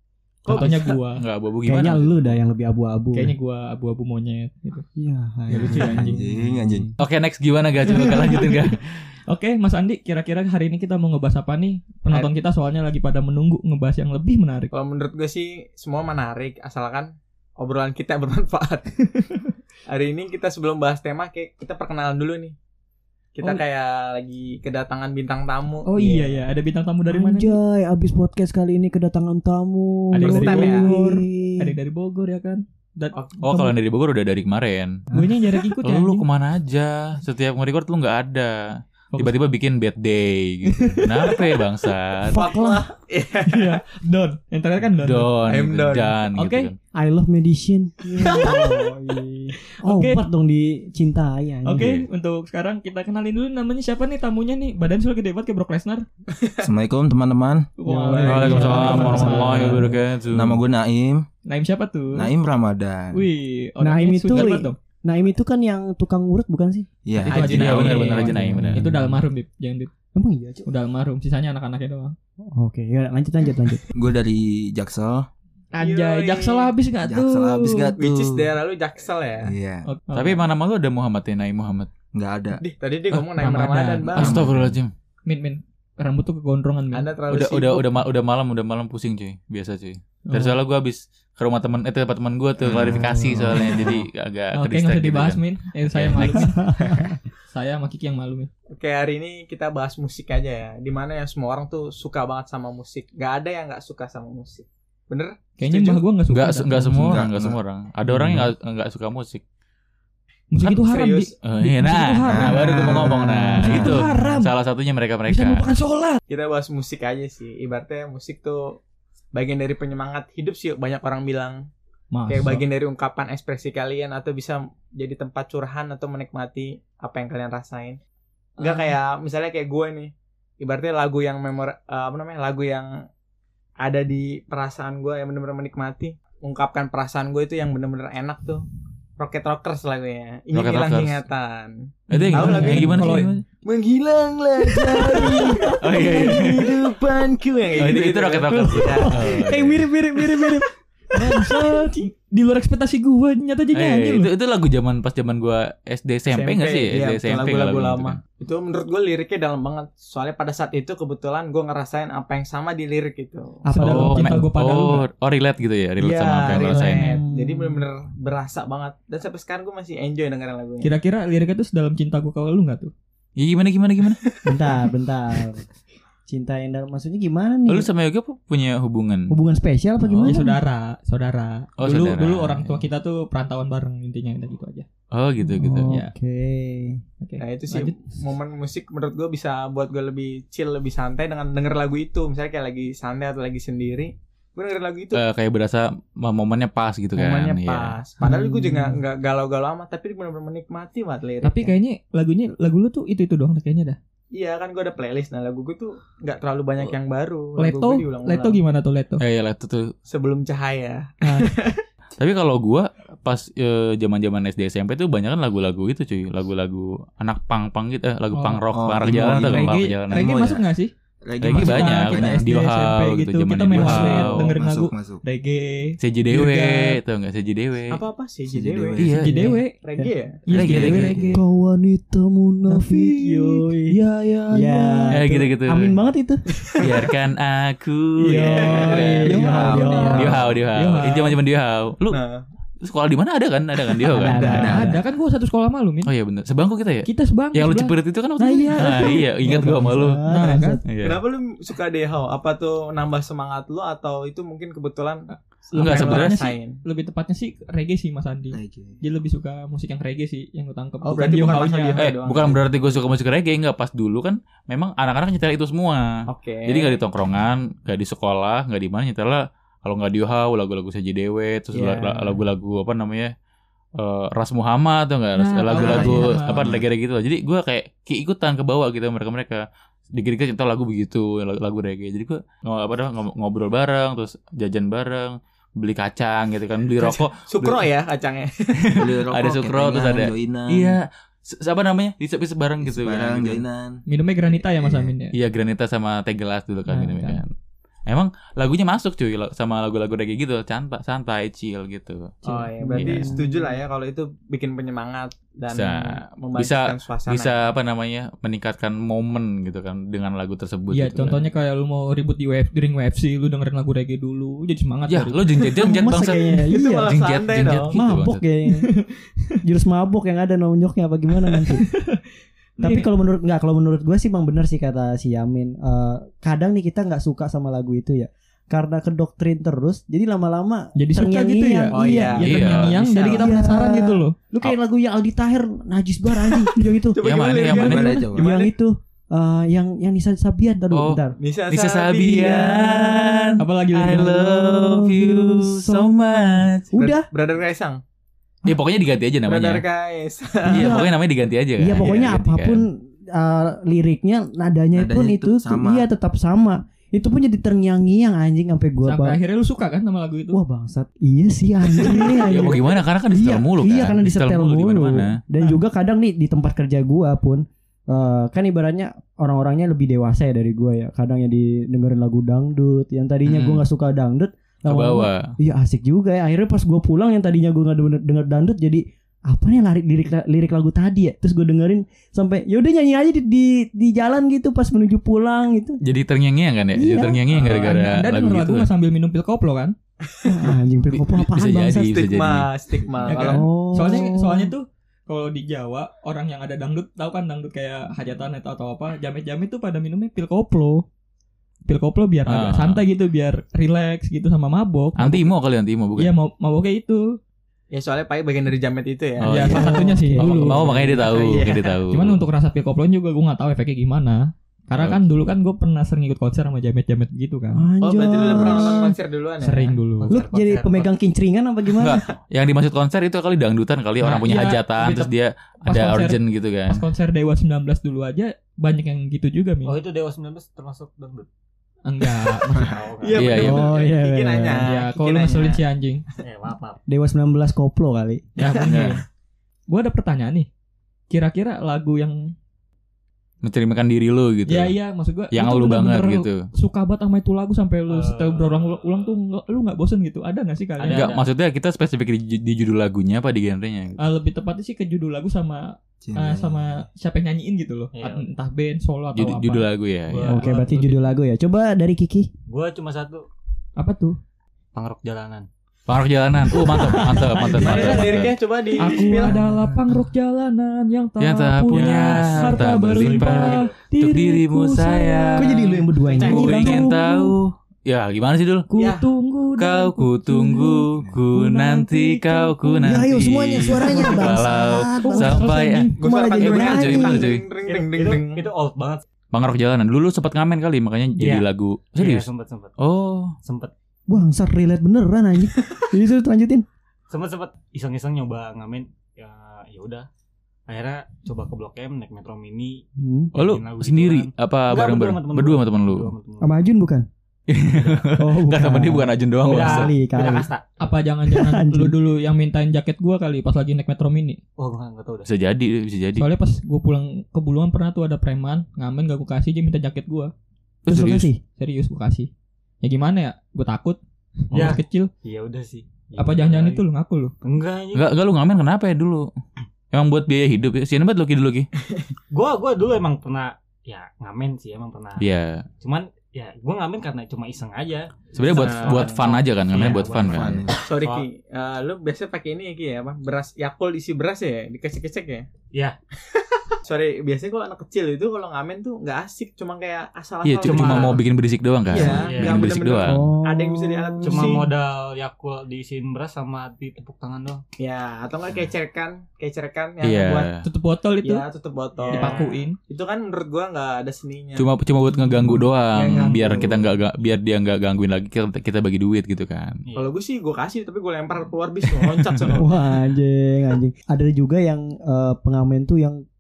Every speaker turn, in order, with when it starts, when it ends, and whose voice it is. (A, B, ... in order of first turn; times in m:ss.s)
0:00.5-0:01.0 A
0:00.5-0:01.3 B
0:01.2-0:02.4 C
0:01.6-0:03.3 D
0:03.1-0:04.8 B
0:05.0-0:06.9 D
0:05.5-0:06.2 B
0:05.6-0:06.1 C
0:05.7-0:06.9 E
0:07.0-0:08.8 C
0:07.8-0:14.7 B
0:14.7-0:18.9 A
0:19.9-0:22.6 A
0:23.4-0:26.4 A
0:25.8-0:27.6 B
0:27.1-0:31.8 D
0:30.1-0:33.6 B
0:30.2-0:30.9 A
0:33.1-0:33.6 A
0:33.4-0:35.0 C
0:35.1-0:35.6 D
0:35.1-0:36.3 B
0:35.8-0:38.6 C
0:39.1-0:39.4 B
0:39.2-0:42.4 C
0:40.7-0:41.6 B
0:42.3-0:43.8 A
0:42.4-0:42.7 B
0:42.4-0:42.8 D
0:43.4-0:45.3 B
0:45.0-0:46.8 C
0:45.5-0:46.2 A
0:46.4-0:46.7 B
0:47.0-0:51.9 D
0:48.2-0:48.8 B
0:49.7-0:50.2 B
0:51.6-0:56.0 B
0:51.8-0:52.1 C
0:56.4-0:56.6 A
0:56.6-0:57.7 E
0:57.8-1:00.0 B
0:57.9-1:00.0 D
0:58.2-1:00.6 C
1:00.3-1:01.3 E
1:01.5-1:02.3 B
1:02.1-1:03.2 E
1:03.1-1:04.8 B
1:03.8-1:06.9 D
1:07.0-1:07.9 E
1:07.3-1:08.8 C
1:07.3-1:09.9 B
1:07.3-1:08.2 A
1:08.3-1:09.2 D
1:10.1-1:10.7 D
1:10.7-1:12.2 B
1:12.5-1:13.8 D
1:13.9-1:15.3 E
1:15.7-1:17.9 B
1:15.8-1:16.7 A
1:17.0-1:18.5 E
1:18.0-1:19.5 A
1:19.4-1:19.9 E
1:19.8-1:20.4 B
1:20.1-1:21.9 C
1:22.1-1:22.6 E
1:22.6-1:24.4 A
1:23.3-1:24.3 B
1:24.2-1:24.9 C
1:24.2-1:24.8 E
1:25.3-1:27.1 B
1:26.9-1:27.9 A
1:27.3-1:36.7 C
1:32.6-1:34.0 E
1:33.2-1:33.6 D
1:34.5-1:38.5 B
1:36.3-1:37.2 D
1:38.7-1:46.0 A
1:45.6-1:47.2 B
1:46.3-1:49.4 C
1:47.0-1:47.6 E
1:48.1-1:48.5 B
1:50.5-1:54.6 B
1:50.6-1:51.4 A
1:51.4-1:55.7 C
1:52.3-1:54.0 E
1:55.3-1:56.2 B
1:56.3-1:58.8 A
1:59.3-2:01.6 A
2:02.1-2:02.6 B
2:02.3-2:08.0 A
2:08.6-2:09.0 B
2:08.6-2:12.9 A
2:13.8-2:18.6 A
2:19.2-2:21.7 A
2:20.5-2:21.2 C
2:22.1-2:23.4 B
2:22.1-2:23.4 C
2:22.3-2:29.4 A
2:25.0-2:26.5 B
2:25.8-2:26.8 C
2:27.8-2:30.0 C
2:28.7-2:34.3 B
2:33.7-2:38.2 C
2:36.3-2:43.6 A
2:43.7-2:45.1 B
2:43.7-2:44.5 D
2:43.8-2:47.1 C
2:46.0-2:50.9 A
2:46.8-2:47.8 D
2:50.8-2:52.9 B
2:53.4-2:54.2 C
2:54.4-2:55.7 D
2:56.3-2:57.9 D
2:57.7-2:59.3 C
2:59.3-3:00.6 D
3:00.0-3:00.4 C
3:00.2-3:04.9 B
3:01.8-3:02.8 C
3:05.1-3:05.9 C
3:05.4-3:07.0 D
3:07.2-3:08.0 B
3:07.4-3:15.2 A
3:15.1-3:18.0 C
3:17.2-3:21.7 A
3:18.2-3:18.9 B
3:21.4-3:24.0 B
3:24.3-3:28.6 A
3:27.6-3:29.2 B
3:29.2-3:29.9 C
3:30.1-3:31.8 A
3:31.2-3:31.5 B
3:32.2-3:40.6 C
3:38.3-3:40.9 B
3:38.7-3:40.2 E
3:41.2-3:42.5 E
3:41.4-3:44.6 C
3:41.5-3:47.0 B
3:43.7-3:45.2 E
3:46.0-3:48.0 C
3:47.9-3:49.1 A
3:48.5-3:49.3 E
3:49.0-3:49.6 C
3:49.2-3:49.8 B
3:49.5-3:50.1 D
3:49.7-3:50.9 A
3:50.5-3:51.3 B
3:50.5-3:51.4 C
3:50.7-3:51.4 E
3:51.3-3:53.9 D
3:52.7-3:55.3 B
3:54.5-3:56.4 D
3:55.1-3:56.0 C
3:56.6-3:57.1 A
3:56.8-3:59.6 C
3:58.3-4:00.1 A
3:58.3-4:01.4 B
3:58.4-3:58.7 D
3:59.2-4:00.4 D
3:59.4-4:00.6 E
4:00.1-4:02.2 C
4:02.1-4:02.5 A
4:02.8-4:04.8 C
4:04.0-4:05.0 D
4:04.4-4:06.1 B
4:04.4-4:05.0 E
4:06.0-4:11.2 C
4:07.0-4:09.2 B
4:08.6-4:10.8 D
4:10.3-4:10.8 B
4:11.0-4:16.8 A
4:15.3-4:22.1 B
4:15.8-4:16.4 C
4:18.5-4:19.0 E
4:21.0-4:22.7 A
4:22.0-4:33.3 C
4:26.3-4:27.0 A
4:31.7-4:32.4 A
4:34.0-4:39.6 C
4:35.4-4:36.7 B
4:35.7-4:36.8 E
4:40.2-4:47.8 C
4:47.0-4:48.9 A
4:48.8-4:53.6 C
4:49.0-4:51.0 E
4:52.8-4:55.1 E
4:54.1-4:55.3 B
4:55.3-4:57.5 C
4:56.9-4:57.4 B
4:58.1-5:02.4 C
5:02.4-5:07.6 A
5:02.8-5:03.8 D
5:02.9-5:03.4 C
5:05.7-5:11.5 C
5:10.9-5:15.4 B
5:15.1-5:18.4 C
5:15.7-5:18.0 A
5:15.8-5:17.1 D
5:17.9-5:18.9 D
5:18.8-5:19.0 B
5:19.6-5:21.9 D
5:22.8-5:32.5 D
5:22.8-5:23.1 B
5:31.0-5:34.4 B
5:31.9-5:33.6 A
5:32.4-5:33.0 C
5:33.1-5:37.2 D
5:37.0-5:38.7 A
5:37.2-5:38.2 C
5:37.8-5:38.5 E
5:38.2-5:41.4 D
5:40.9-5:46.9 C
5:41.4-5:43.4 A
5:43.6-5:44.4 B
5:44.1-5:46.2 D
5:46.9-5:47.3 D
5:47.0-5:48.0 A
5:48.7-5:49.8 C
5:49.5-5:51.0 A
5:50.7-5:52.8 C
5:50.7-5:51.1 D
5:51.8-5:59.4 D
5:54.9-5:56.1 E
5:59.0-6:00.6 B
6:00.5-6:26.0 D
6:02.4-6:05.4 C
6:13.4-6:13.9 C
6:14.9-6:15.6 C
6:26.0-6:28.9 C
6:27.0-6:27.8 D
6:27.5-6:30.0 B
6:30.3-6:30.8 A
6:30.4-6:32.2 D
6:31.1-6:32.7 C
6:32.0-6:33.7 A
6:33.1-6:33.4 E
6:33.3-6:41.0 B
6:33.4-6:34.7 D
6:41.9-6:45.5 B
6:42.5-6:43.0 C
6:45.2-6:46.4 C
6:46.2-6:47.4 B
6:47.9-6:50.0 A
6:49.4-6:52.4 C
6:49.5-6:51.0 B
6:49.7-6:51.3 D
6:50.8-6:52.0 A
6:52.1-6:57.9 B
6:54.9-6:55.2 C
6:57.7-6:59.2 D
6:58.0-7:00.0 A
6:59.6-7:00.4 B
7:00.2-7:01.2 F
7:00.3-7:02.2 D
7:02.0-7:07.0 C
7:04.2-7:05.3 B
7:05.9-7:10.0 B
7:09.8-7:11.5 F
7:12.0-7:13.0 B
7:12.8-7:13.6 F
7:13.2-7:15.8 A
7:13.4-7:14.0 C
7:13.6-7:14.9 D
7:14.8-7:16.2 B
7:16.4-7:17.0 F
7:17.1-7:18.8 D
7:18.6-7:19.2 B
7:18.8-7:19.2 E
7:19.9-7:20.7 B
7:21.3-7:22.5 B
7:23.6-7:25.0 C
7:24.7-7:31.3 B
7:25.5-7:26.7 C
7:28.1-7:29.3 F
7:31.0-7:31.5 F
7:31.1-7:34.2 C
7:34.2-7:39.9 B
7:36.2-7:37.0 E
7:38.2-7:38.5 F
7:39.4-7:40.6 C
7:40.3-7:41.3 F
7:40.5-7:42.5 D
7:42.7-7:43.5 F
7:44.0-7:44.4 B
7:44.9-7:45.7 F
7:46.1-7:48.5 C
7:46.8-7:48.4 B
7:47.6-7:49.5 A
7:49.0-7:55.7 B
7:51.4-7:58.9 C
7:51.9-7:54.0 F
7:55.6-7:57.5 D
7:55.9-7:57.1 A
7:58.9-8:03.2 B
7:59.0-7:59.3 A
7:59.8-8:07.6 C
8:01.2-8:01.5 E
8:03.0-8:07.6 D
8:03.9-8:04.6 B
8:05.2-8:06.2 B
8:06.2-8:08.6 A
8:07.8-8:09.2 F
8:09.5-8:12.5 C
8:11.4-8:13.0 F
8:13.0-8:13.6 C
8:13.6-8:13.9 F
8:14.3-8:16.9 D
8:17.3-8:20.3 F
8:20.9-8:26.8 F
8:23.2-8:23.5 D
8:23.6-8:26.3 C
8:26.6-8:27.3 D
8:27.7-8:30.1 C
8:28.0-8:28.3 F
8:28.4-8:30.7 D
8:29.7-8:31.1 F
8:31.0-8:34.6 B
8:31.5-8:32.2 D
8:34.8-8:35.5 F
8:35.4-8:36.5 C
8:36.4-8:40.5 B
8:41.0-8:41.5 C
8:41.1-8:41.6 D
8:41.8-8:42.5 B
8:43.0-8:45.3 B
8:44.7-8:47.0 F
8:46.4-8:47.5 B
8:47.6-8:48.3 F
8:48.1-8:49.5 C
8:50.1-8:51.9 C
8:52.5-8:55.5 F
8:55.4-8:55.8 C
8:56.0-9:01.5 F
8:58.6-9:00.8 C
8:58.6-8:59.6 A
9:00.4-9:01.0 E
9:01.0-9:05.7 A
9:06.5-9:11.4 A
9:10.6-9:13.5 C
9:10.8-9:11.4 F
9:12.1-9:14.9 A
9:12.2-9:12.9 F
9:13.2-9:14.9 D
9:14.4-9:17.8 F
9:18.0-9:20.7 A
9:20.2-9:20.8 C
9:20.8-9:21.7 B
9:21.4-9:24.9 A
9:22.2-9:22.7 F
9:22.3-9:23.0 B
9:24.8-9:30.0 C
9:25.6-9:26.9 D
9:26.2-9:27.1 A
9:30.1-9:30.3 F
9:30.2-9:32.9 A
9:32.2-9:32.7 C
9:32.8-9:36.4 D